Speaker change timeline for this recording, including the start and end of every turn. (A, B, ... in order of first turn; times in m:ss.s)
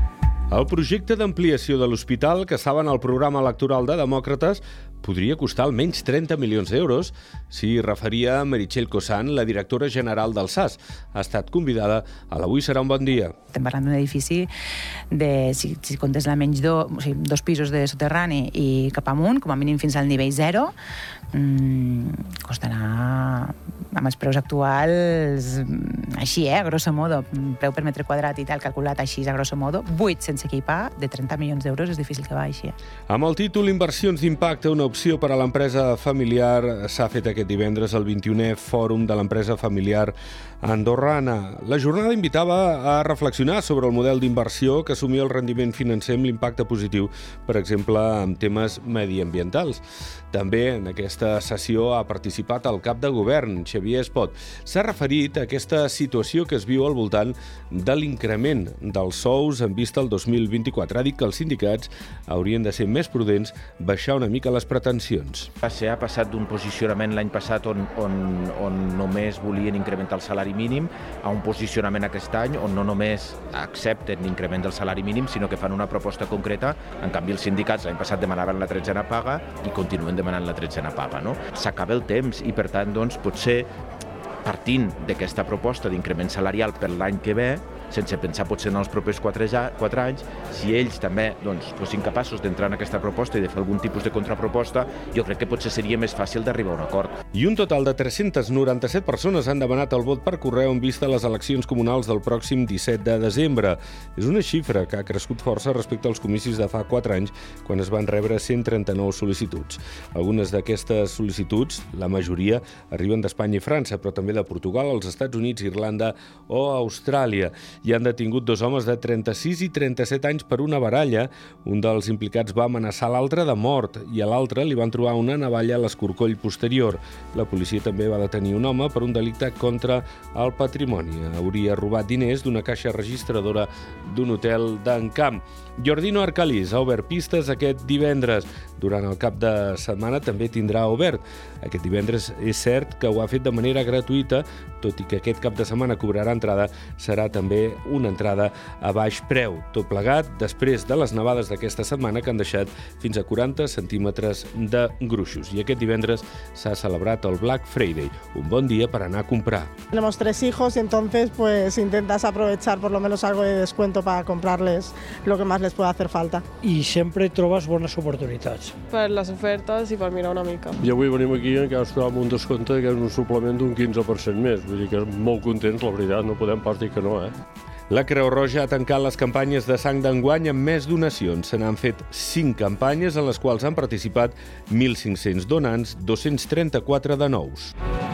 0:00.5-0:13.3 A
0:13.5-0:14.5 B
0:15.1-0:20.7 B
0:21.3-0:32.8 B
0:33.1-1:05.5 A
1:05.6-1:23.7 C
1:24.4-1:37.1 C
1:37.3-2:39.7 A
2:39.9-2:46.4 D
2:46.6-2:48.8 E
2:48.9-2:51.0 F
2:51.0-2:57.3 G
2:57.9-3:07.7 A